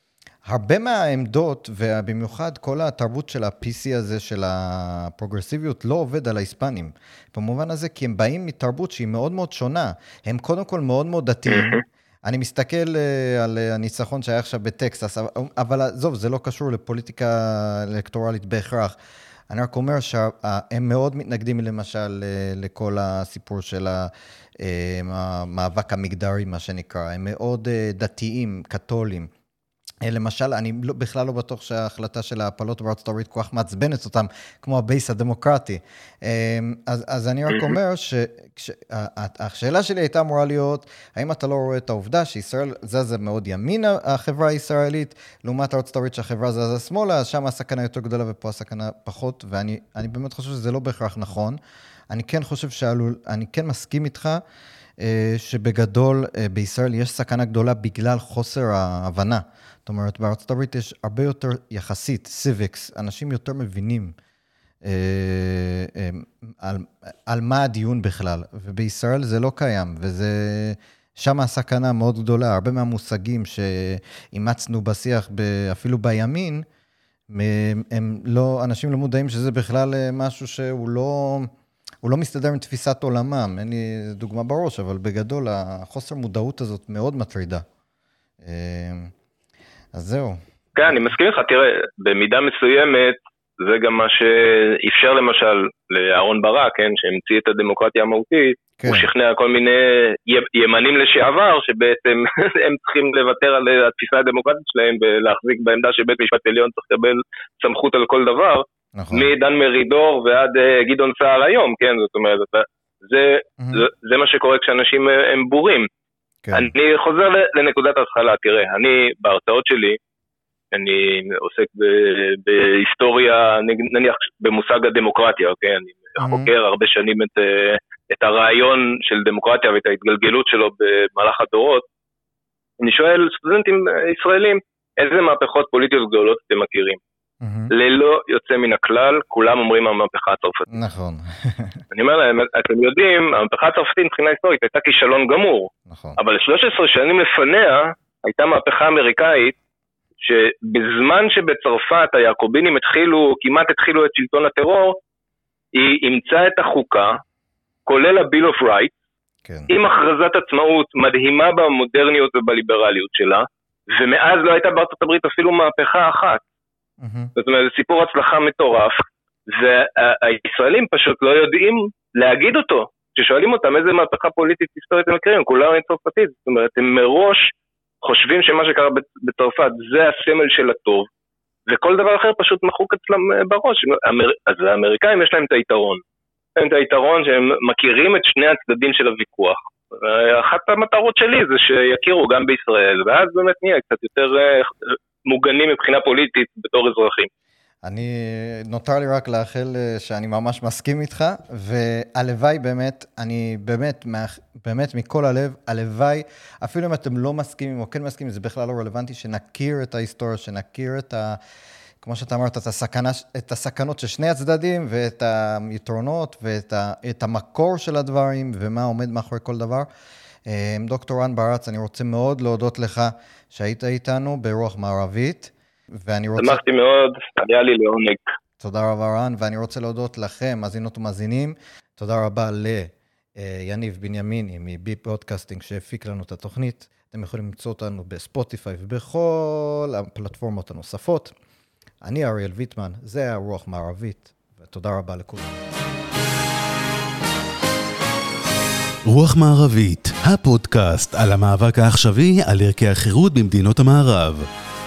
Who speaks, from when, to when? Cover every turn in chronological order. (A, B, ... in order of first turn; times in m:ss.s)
0:00.4-0:18.9 A
0:11.5-0:11.8 B
0:19.5-0:29.3 A
0:30.0-0:51.6 A
0:37.5-0:37.8 B
0:52.1-0:54.4 A
0:55.0-1:04.1 A
1:04.8-1:16.6 A
1:17.3-1:21.5 A
1:22.0-1:27.6 A
1:28.4-1:29.1 A
1:29.9-1:30.4 A
1:30.7-1:55.9 B
1:38.8-1:39.1 A
1:48.9-1:49.3 A
1:53.6-1:53.8 A
1:56.4-1:56.7 A
1:56.5-2:00.0 B
2:00.7-2:11.8 B
2:06.2-2:06.5 A
2:12.8-2:17.0 B
2:17.4-2:17.7 A
2:17.7-2:20.7 B
2:20.7-2:21.8 A
2:21.9-2:29.6 B
2:25.9-2:26.2 A
2:30.2-2:35.0 B
2:35.7-2:37.2 B
2:37.8-2:38.9 B
2:39.4-2:39.7 A
2:39.7-2:46.4 B
2:47.0-2:47.3 A
2:47.4-3:01.1 B
3:01.7-3:06.0 B
3:06.6-3:17.3 B
3:17.8-3:31.4 A
3:32.0-3:39.9 A
3:40.4-3:46.6 A
3:46.4-3:48.3 B
3:48.6-4:01.3 A
4:02.0-4:05.6 A
4:09.1-4:14.4 C